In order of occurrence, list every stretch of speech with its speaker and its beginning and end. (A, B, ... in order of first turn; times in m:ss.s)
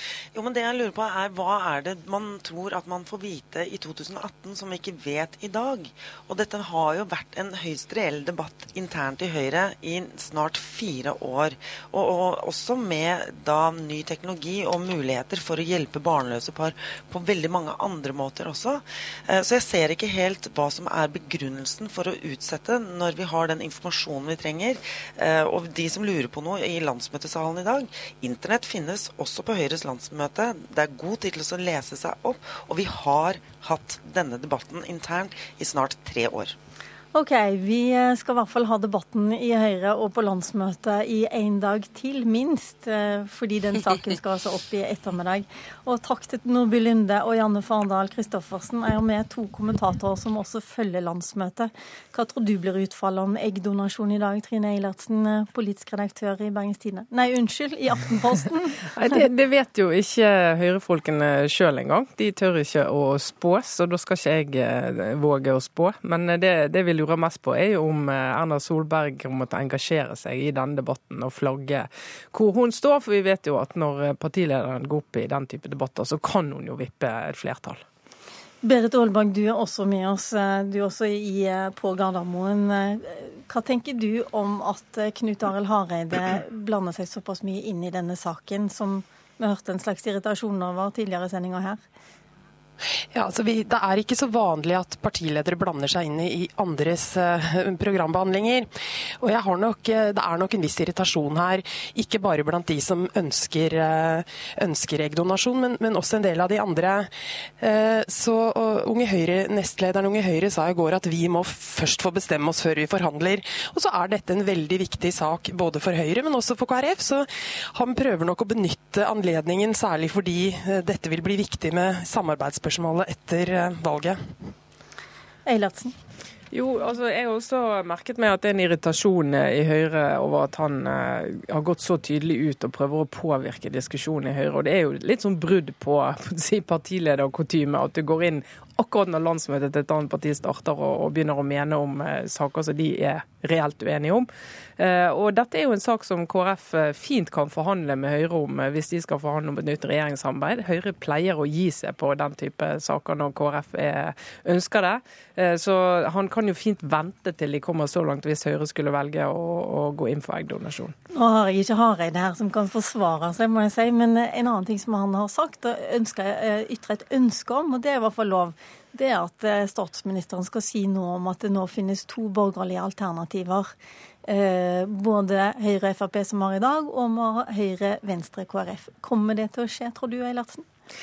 0:00.4-0:36.6 A
0:37.1-0:58.7 B
0:59.0-1:17.8 C
1:18.6-1:31.8 B
1:33.1-1:38.7 D
1:39.2-2:04.3 D
2:05.5-2:06.0 B
2:06.5-2:41.0 C
2:41.1-2:53.7 B
2:54.3-3:00.6 B